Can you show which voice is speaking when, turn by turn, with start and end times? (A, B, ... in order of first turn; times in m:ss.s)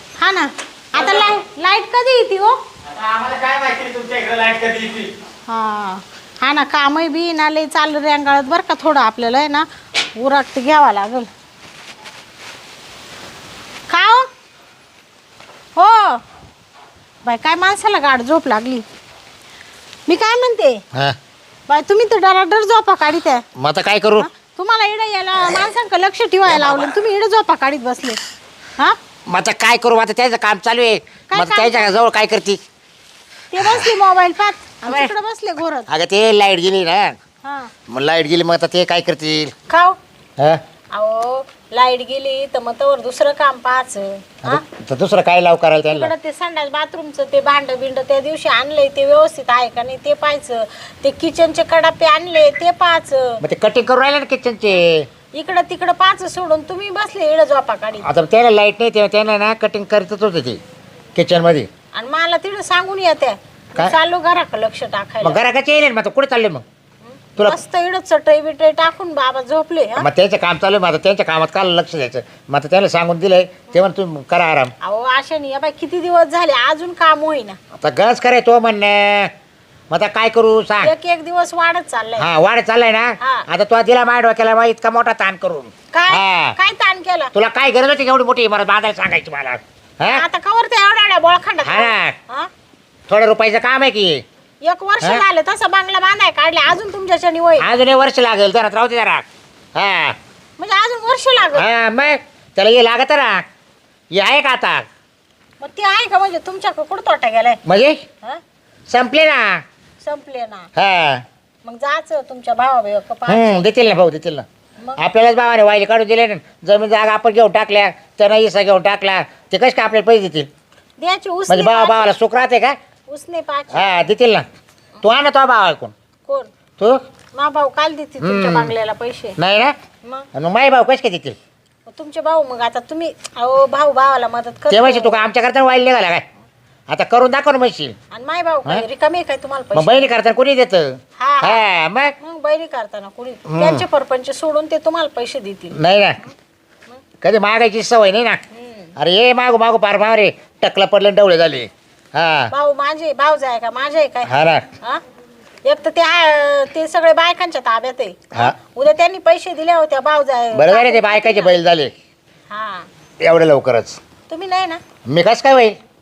0:00.2-0:02.6 A
0:01.0-0:01.3 B
0:02.8-0:05.1 B
0:05.5-0:11.3 A
0:13.9-0:14.3 A
0:15.8-0:16.2 A
0:17.2-0:18.8 A
0:20.1-0:20.8 A
0:21.7-0:23.4 A
0:23.6-0:24.3 C
0:24.2-0:28.2 A
0:26.5-0:26.9 C
0:29.3-0:32.6 C
0:31.3-0:31.9 A
0:33.5-0:35.9 A
0:33.6-0:33.9 C
0:34.9-0:35.1 C
0:35.9-0:37.2 C
0:37.4-0:37.7 A
0:37.9-0:39.5 C
0:39.7-0:40.0 A
0:40.9-0:44.6 A
0:44.4-0:46.1 C
0:45.9-0:53.4 A
0:53.4-0:55.1 C
0:55.4-0:58.1 A
0:58.0-1:00.6 C
1:01.2-1:01.7 C
1:01.9-1:05.4 A
1:05.2-1:06.6 C
1:07.0-1:10.1 A
1:10.0-1:14.7 C
1:14.8-1:17.6 A
1:17.8-1:19.3 C
1:19.9-1:20.9 C
1:20.8-1:22.3 A
1:22.2-1:26.6 C
1:25.9-1:27.3 A
1:27.3-1:30.2 C
1:30.0-1:32.5 A
1:31.6-1:32.2 C
1:33.1-1:34.2 C
1:34.6-1:37.7 A
1:37.6-1:39.2 C
1:39.8-1:40.2 C
1:40.6-1:41.7 A
1:41.5-1:43.4 C
1:44.1-1:44.8 C
1:45.6-1:47.6 A
1:47.7-1:48.0 C
1:48.9-1:49.6 C
1:50.0-1:50.7 A
1:50.8-1:51.2 C
1:51.6-1:53.6 A
1:53.3-1:54.4 C
1:55.0-2:00.5 C
2:01.0-2:02.1 A
2:01.5-2:02.8 C
2:03.1-2:03.9 A
2:03.7-2:04.4 C
2:05.0-2:05.9 C
2:07.3-2:09.4 A
2:08.2-2:08.7 C
2:09.4-2:09.8 C
2:10.3-2:11.4 C
2:11.9-2:15.2 A
2:14.7-2:16.2 C
2:16.9-2:18.0 C
2:18.1-2:20.1 A
2:19.7-2:22.1 C
2:21.2-2:21.6 A
2:22.2-2:25.8 A
2:23.5-2:23.8 C
2:25.7-2:26.2 C
2:27.2-2:28.4 C
2:28.5-2:28.9 A
2:29.0-2:32.5 C
2:32.5-2:34.3 A
2:34.2-2:34.6 C
2:35.6-2:41.5 A
2:40.5-2:41.9 C
2:42.5-2:42.9 A
2:43.2-2:44.0 C
2:44.3-2:44.8 A
2:45.1-2:45.8 C